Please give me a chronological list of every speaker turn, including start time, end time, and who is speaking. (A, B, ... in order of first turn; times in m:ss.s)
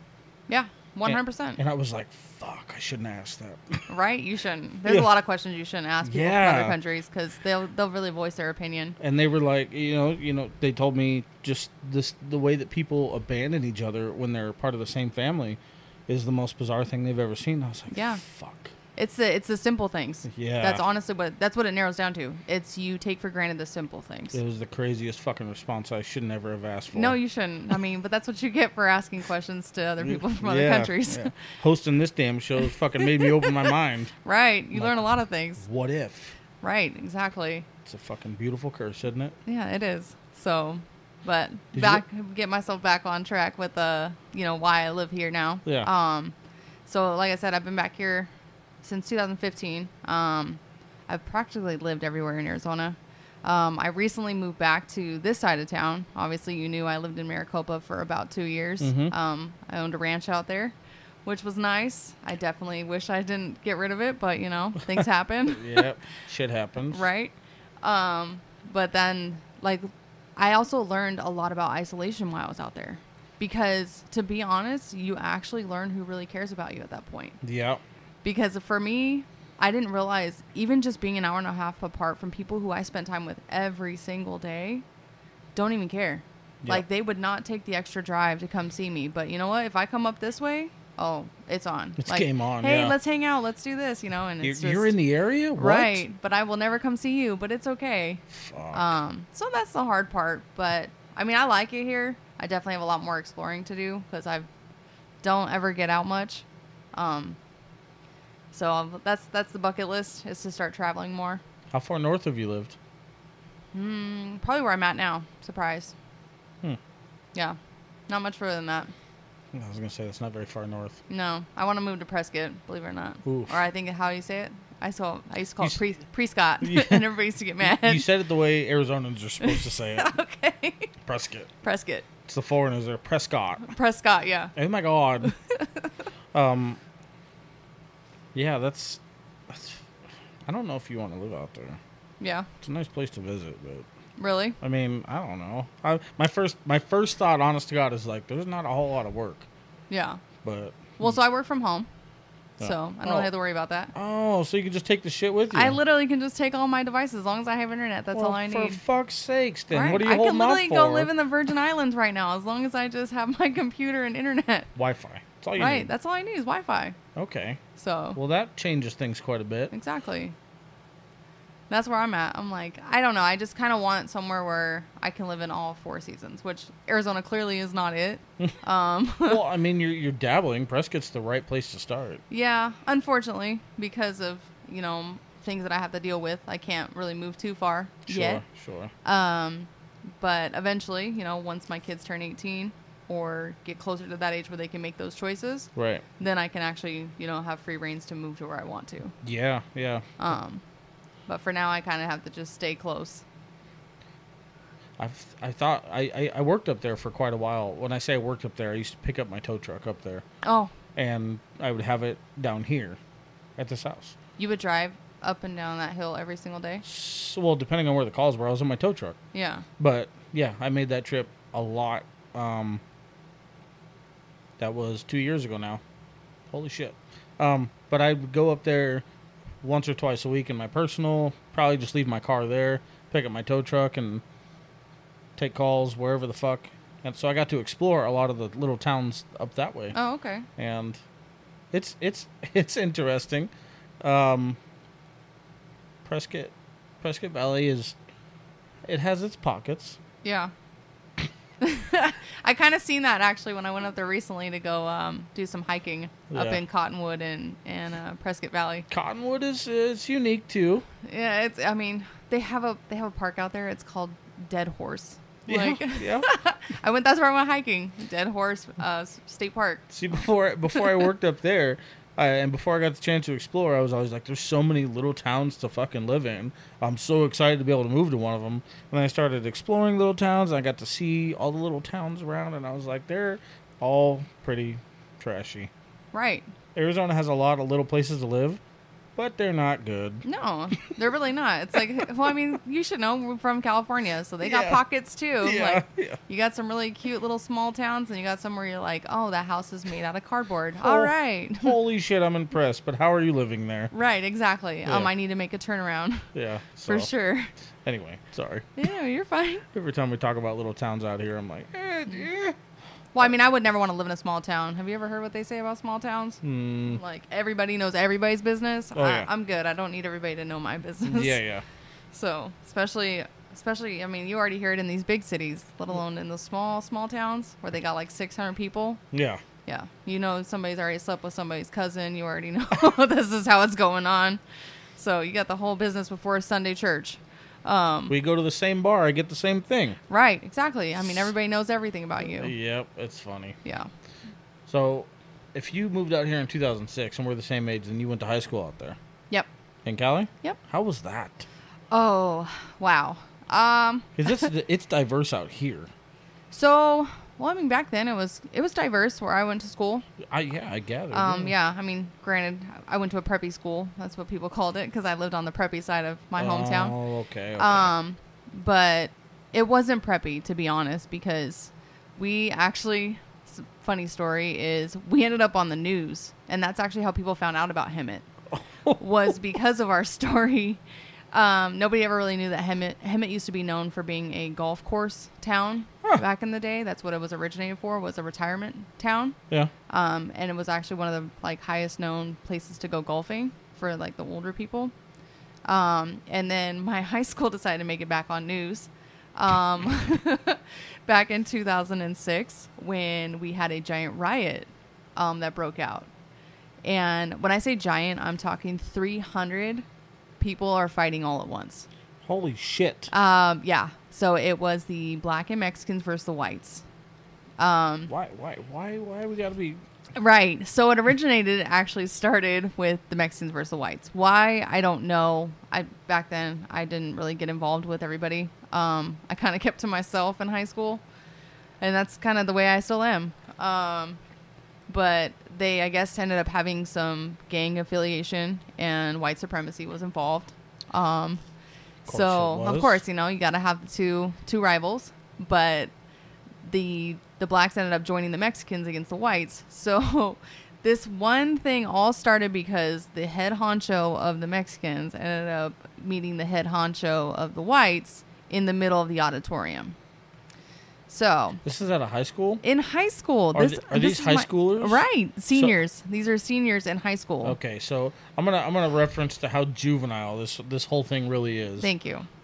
0:00.5-0:01.6 A
0:01.1-0:03.9 B
0:03.9-0:09.0 A
0:06.0-0:06.8 B
0:09.0-0:18.7 B
0:17.9-0:18.2 A
0:19.0-0:24.4 A
0:20.3-0:20.8 B
0:24.3-0:27.2 B
0:26.9-0:31.4 A
0:30.0-0:34.1 B
0:33.0-0:33.7 A
0:34.2-0:35.6 A
0:34.7-0:35.1 B
0:35.6-0:36.3 B
0:36.6-0:37.7 A
0:37.8-0:39.4 B
0:39.5-0:46.4 A
0:41.7-0:42.0 B
0:45.6-0:45.9 B
0:46.9-0:48.3 A
0:48.8-1:05.8 A
0:58.8-0:59.1 B
1:05.5-1:07.0 B
1:06.9-1:17.4 A
1:17.4-1:17.8 B
1:18.2-1:24.8 A
1:25.6-1:35.0 A
1:32.0-1:33.0 B
1:34.4-1:36.0 B
1:35.6-1:44.5 A
1:38.3-1:39.0 B
1:45.2-1:47.4 A
1:48.5-1:51.4 A
1:51.7-1:52.8 B
1:53.7-1:55.9 A
1:57.4-1:58.9 A
1:59.5-2:01.0 B
2:01.1-2:08.1 A
2:03.2-2:03.5 B
2:06.6-2:10.1 B
2:09.4-2:10.9 A
2:11.0-2:11.5 B
2:11.6-2:12.1 A
2:12.3-2:13.7 B
2:13.7-2:14.5 A
2:14.6-2:15.3 B
2:15.2-2:15.9 A
2:16.3-2:16.8 B
2:18.3-2:19.9 B
2:20.5-2:21.8 B
2:22.2-2:22.5 A
2:22.6-2:23.9 B
2:24.2-2:24.6 A
2:24.6-2:29.5 B
2:29.9-2:30.2 A
2:30.4-2:31.2 B
2:31.0-2:31.9 A
2:32.6-2:33.3 B
2:32.6-2:33.9 A
2:33.9-2:35.8 B
2:35.5-2:38.8 A
2:38.1-2:41.1 B
2:39.7-2:44.7 A
2:44.8-2:45.9 B
2:45.6-2:47.0 A
2:47.2-2:47.6 B
2:47.8-2:48.2 A
2:48.2-2:49.7 B
2:49.7-2:50.4 A
2:51.7-2:59.4 A
2:59.2-3:02.2 B
3:02.3-3:08.4 A
3:08.1-3:08.9 B
3:09.0-3:19.2 A
3:15.8-3:16.0 B
3:19.2-3:20.1 B
3:20.2-3:20.6 A
3:21.3-3:23.2 A
3:25.0-3:30.2 B
3:30.4-3:30.7 A
3:31.0-3:33.0 B
3:33.6-3:34.2 B
3:34.4-3:36.8 A
3:36.8-3:39.2 B
3:39.3-3:39.7 A
3:39.8-3:42.8 B
3:44.6-3:45.8 B
3:46.5-3:49.0 B
3:49.6-3:54.2 B
3:55.4-4:00.0 B
4:00.0-4:00.5 A
4:00.6-4:01.0 B
4:01.7-4:04.6 B
4:06.0-4:08.0 B
4:08.9-4:10.0 B
4:10.2-4:10.5 A
4:11.6-4:18.9 A
4:16.3-4:16.6 B
4:18.9-4:20.9 B
4:21.0-4:29.9 A
4:25.5-4:26.3 B
4:29.9-4:45.7 B
4:30.7-4:31.0 A
4:46.1-4:46.5 A
4:46.8-4:48.6 B
4:49.2-4:50.2 B
4:50.2-5:01.8 A
4:54.4-4:54.8 B
4:55.4-4:56.2 B
5:00.8-5:03.9 B
5:03.9-5:06.3 A
5:04.8-5:05.1 B
5:06.4-5:07.1 B
5:06.9-5:07.5 A
5:07.8-5:08.7 B
5:08.8-5:09.7 A
5:09.7-5:12.6 B
5:13.1-5:21.4 A
5:16.4-5:17.0 B
5:19.0-5:19.3 B
5:21.1-5:21.6 B
5:22.1-5:29.0 A
5:29.1-5:29.4 B
5:29.7-5:34.4 A
5:35.0-5:38.2 A
5:38.1-5:40.0 B
5:40.1-5:42.5 A
5:42.2-5:43.6 B
5:44.7-5:49.0 B
5:49.8-5:51.5 B
5:51.9-5:54.5 A
5:54.2-5:55.9 B
5:56.5-6:00.0 A
6:00.2-6:01.5 B
6:01.1-6:07.0 A
6:06.4-6:07.9 B
6:07.6-6:18.3 A
6:19.0-6:20.8 A
6:21.3-6:29.4 A
6:29.9-6:34.9 A
6:35.7-6:46.1 A
6:46.8-6:49.8 A
6:50.4-6:51.9 A
6:52.2-6:53.1 B
6:53.1-6:56.8 A
6:57.6-6:58.1 A
6:58.1-6:59.8 B
7:00.2-7:11.0 A
7:11.8-7:14.2 A
7:14.9-7:21.4 A
7:22.0-7:25.9 A
7:22.1-7:23.0 B
7:26.6-7:40.0 A
7:41.1-7:41.6 A
7:41.6-7:42.6 B
7:42.6-7:47.6 A
7:43.5-7:45.8 B
7:47.4-7:51.9 B
7:51.8-7:52.3 A